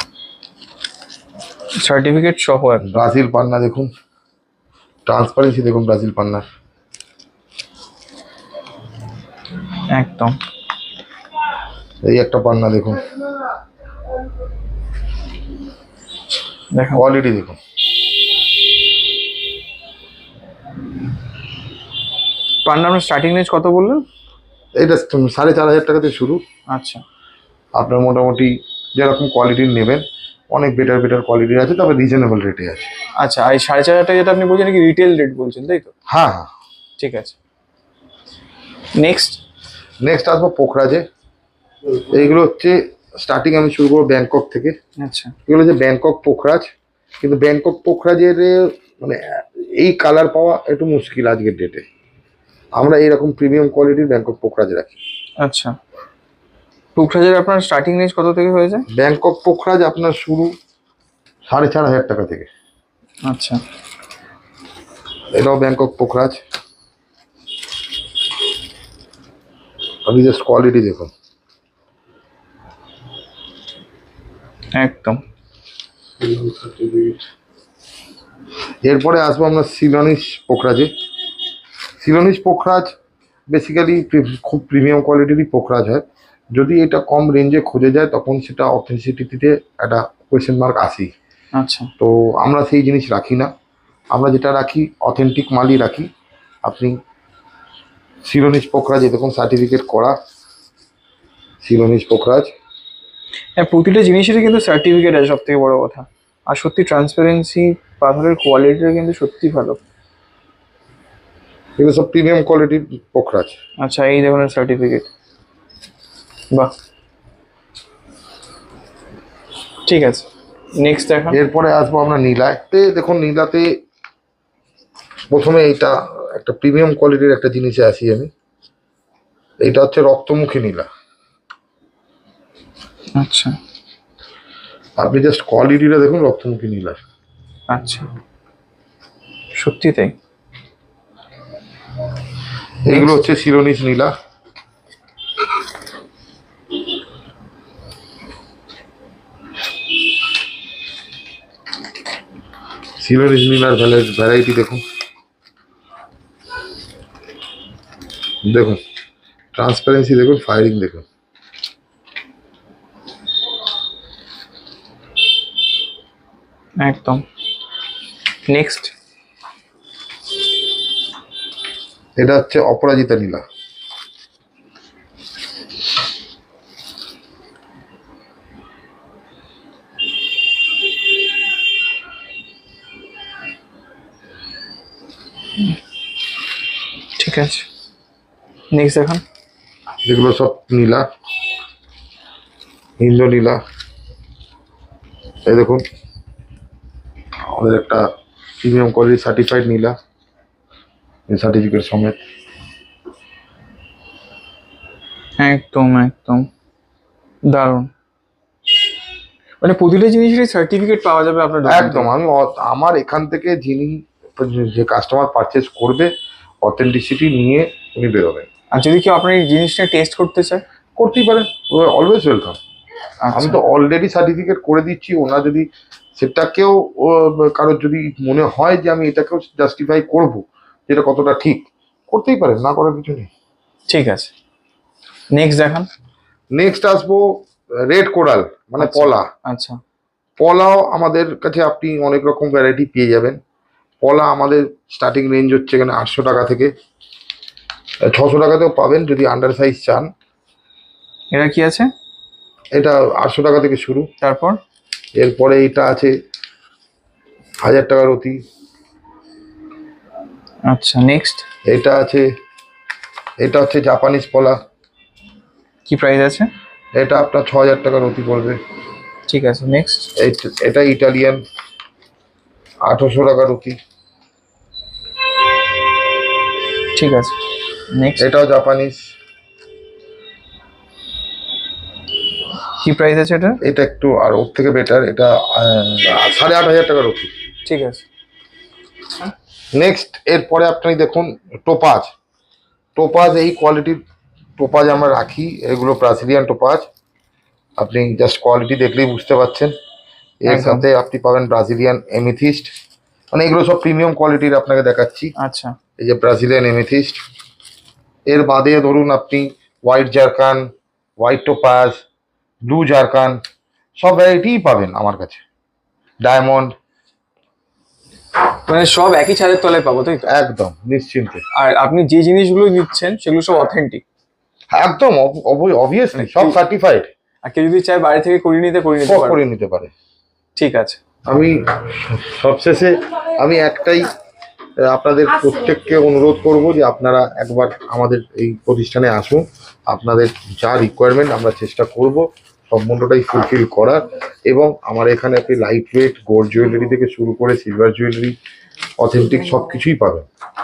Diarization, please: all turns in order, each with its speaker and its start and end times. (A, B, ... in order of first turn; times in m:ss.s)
0:01.8-0:02.9 A
0:02.8-0:03.9 B
0:05.1-0:06.5 B
0:09.9-0:10.4 A
0:12.0-0:13.1 B
0:16.7-0:17.0 A
0:16.9-0:17.6 B
0:22.6-0:24.0 A
0:24.8-0:26.4 B
0:26.7-0:27.0 A
0:27.8-0:32.9 B
0:33.2-0:35.9 A
0:36.1-0:36.5 B
0:37.0-0:37.4 A
0:39.0-0:39.4 A
0:40.0-0:41.0 B
0:42.0-0:44.8 B
0:45.0-0:45.3 A
0:45.5-0:46.7 B
0:47.2-0:51.8 B
0:52.8-0:55.0 B
0:55.4-0:55.8 A
0:57.0-0:58.9 A
0:58.9-1:00.5 B
1:01.5-1:02.5 B
1:03.3-1:03.6 A
1:05.3-1:06.4 B
1:10.1-1:11.1 B
1:14.8-1:15.2 A
1:18.8-1:20.9 B
1:22.0-1:22.9 B
1:23.5-1:31.1 B
1:31.6-1:31.9 A
1:32.0-1:33.5 B
1:34.1-1:36.1 B
1:36.6-1:37.0 B
1:38.2-1:40.2 B
1:41.6-1:42.5 B
1:43.6-1:49.8 A
1:51.8-1:53.6 B
1:53.8-1:55.1 A
1:59.9-2:01.4 A
2:01.3-2:03.7 B
2:05.3-2:08.3 B
2:09.6-2:10.9 B
2:13.2-2:13.6 A
2:15.0-2:17.0 B
2:17.7-2:18.1 A
2:19.6-2:20.1 A
2:22.8-2:24.1 B
2:22.9-2:23.2 A
2:33.0-2:34.8 B
2:38.4-2:38.8 B
2:39.5-2:41.0 B
2:46.8-2:47.2 A
2:48.5-2:48.9 A
2:52.2-2:53.4 B
3:07.2-3:07.7 A
3:08.7-3:09.2 A
3:10.0-3:11.0 B
3:13.0-3:13.6 B
3:15.5-3:15.8 B
3:17.5-3:18.1 B
3:18.6-3:20.0 B
3:21.3-3:22.2 B
3:25.4-3:26.5 A
3:27.5-3:27.9 A
3:29.6-3:32.1 A
3:31.6-3:38.5 B
3:38.7-3:40.6 A
3:41.0-3:42.6 B
3:43.2-3:43.6 A
3:43.3-3:53.3 B
3:53.9-3:54.3 A
3:55.3-3:55.9 A
3:56.5-3:59.3 B
3:58.8-3:59.8 A
4:00.4-4:03.4 B
4:04.0-4:06.7 B
4:08.0-4:10.1 B
4:11.3-4:11.9 A
4:12.8-4:14.1 B
4:14.2-4:14.6 A
4:15.2-4:16.1 B
4:17.6-4:18.4 B
4:20.7-4:21.4 A
4:21.6-4:22.3 B
4:23.4-4:24.6 B
4:25.9-4:26.5 A
4:27.0-4:28.6 B
4:29.3-4:30.1 A
4:30.2-4:31.4 B
4:32.8-4:33.8 B
4:36.9-4:37.4 A
4:37.9-4:38.3 A
4:38.2-4:39.0 B
4:42.8-4:43.6 A
4:43.6-4:47.3 B
4:47.7-4:48.0 A
4:49.7-4:52.1 B
4:53.0-4:54.0 B
4:54.6-4:56.9 B
4:57.8-4:59.7 B
5:00.4-5:02.7 B
5:00.5-5:00.9 A
5:03.3-5:05.3 B
5:05.4-5:05.8 A
5:06.0-5:07.2 B
5:08.3-5:12.0 B
5:12.6-5:13.4 B
5:14.0-5:15.4 B
5:16.2-5:16.7 B
5:18.7-5:20.3 A
5:20.3-5:21.4 B
5:21.5-5:24.0 A
5:24.7-5:27.1 B
5:26.2-5:26.6 A
5:27.4-5:29.4 A
5:29.0-5:29.9 B
5:30.6-5:31.0 A
5:31.3-5:34.1 B
5:34.8-5:48.4 B
5:49.0-5:50.3 B